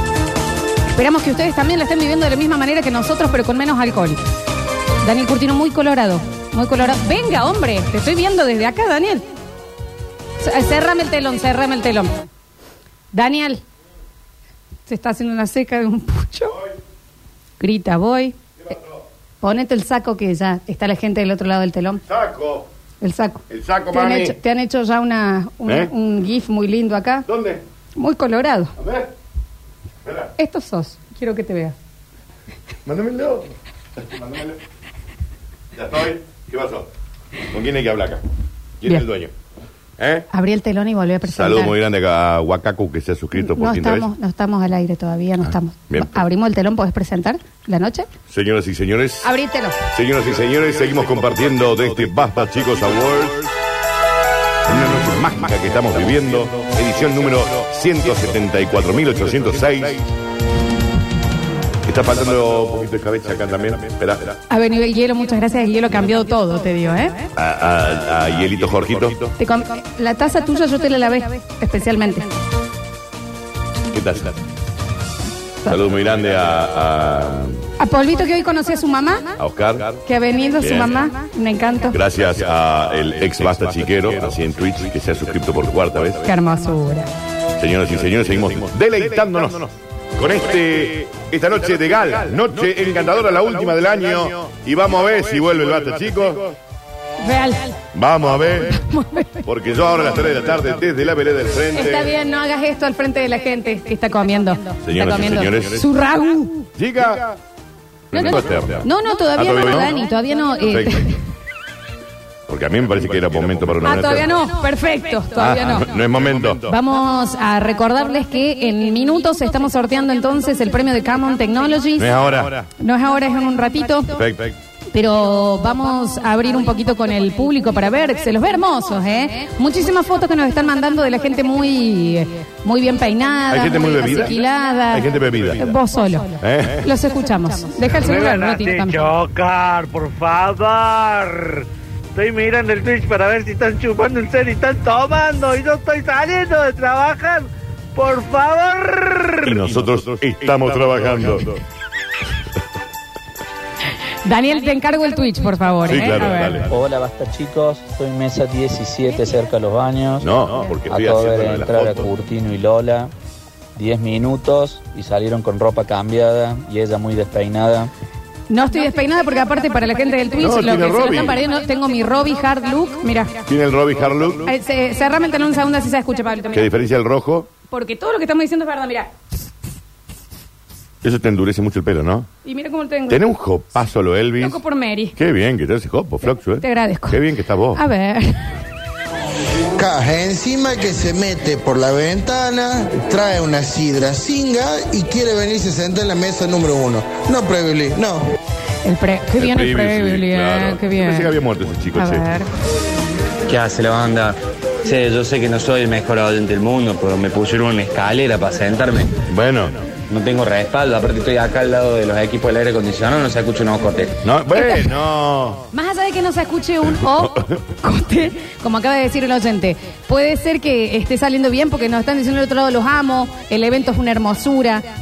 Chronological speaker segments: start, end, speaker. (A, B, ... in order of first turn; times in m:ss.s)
0:00.9-0:04.2 A
0:05.0-0:09.2 A
0:10.4-0:12.3 A
0:13.1-0:13.6 A
0:14.9-0:16.6 A
0:17.6-0:18.4 A
0:18.6-0:19.0 B
0:19.4-0:22.0 A
0:22.1-0:22.6 B
0:23.0-0:27.2 A
0:23.5-0:24.4 B
0:27.3-0:27.6 B
0:28.0-0:28.7 A
0:28.8-0:29.1 B
0:30.4-0:31.7 A
0:32.8-0:34.6 B
0:35.7-0:36.9 B
0:37.5-0:38.2 B
0:38.8-0:39.3 B
0:40.0-0:40.2 B
0:40.3-0:41.7 A
0:41.3-0:44.0 B
0:43.4-0:48.1 A
0:45.5-0:46.1 B
0:48.3-0:49.3 B
0:49.2-0:49.8 A
0:49.9-0:53.5 B
0:54.7-1:00.0 B
1:01.8-1:04.4 B
1:04.5-1:07.3 A
1:07.4-1:09.3 B
1:09.4-1:12.3 A
1:13.9-1:14.4 B
1:15.6-1:17.6 B
1:17.8-1:19.3 A
1:19.4-1:20.0 B
1:20.0-1:22.0 A
1:20.6-1:20.9 B
1:21.9-1:26.3 B
1:26.2-1:27.1 A
1:27.6-1:36.6 B
1:37.2-1:37.8 A
1:37.9-1:38.8 B
1:38.6-1:39.4 A
1:39.4-1:42.1 B
1:41.7-1:46.6 A
1:44.8-1:45.9 B
1:46.8-1:47.4 B
1:48.1-1:49.9 B
1:48.1-1:51.2 A
1:50.7-1:51.0 B
1:52.5-1:54.4 B
1:53.8-1:55.9 A
1:55.4-1:56.7 B
1:56.6-2:02.1 A
2:02.0-2:02.7 B
2:02.8-2:04.2 A
2:04.1-2:04.6 B
2:04.9-2:19.1 A
2:13.5-2:14.4 B
2:14.9-2:15.7 B
2:16.4-2:16.9 B
2:17.9-2:29.6 C
2:29.4-2:31.6 B
2:34.2-2:36.6 A
2:35.9-2:36.7 B
2:36.7-2:40.3 D
2:40.2-2:42.1 B
2:40.9-2:43.1 D
2:43.8-2:47.9 D
2:48.5-2:53.3 A
2:50.4-2:51.4 B
2:53.5-2:54.5 B
2:54.4-2:56.7 A
2:56.5-2:57.5 B
2:57.7-2:59.1 A
3:01.0-3:02.3 B
3:02.4-3:03.2 A
3:03.1-3:04.6 B
3:04.4-3:05.1 A
3:05.2-3:07.8 B
3:06.6-3:07.2 A
3:07.7-3:08.5 A
3:09.7-3:18.3 E
3:18.8-3:21.3 A
3:19.4-3:22.3 B
3:22.0-3:22.5 A
3:23.5-3:29.1 F
3:29.3-3:29.8 B
3:30.1-3:34.2 F
3:34.2-3:35.7 B
3:34.5-3:34.9 A
3:35.7-3:44.8 A
3:37.1-3:37.4 B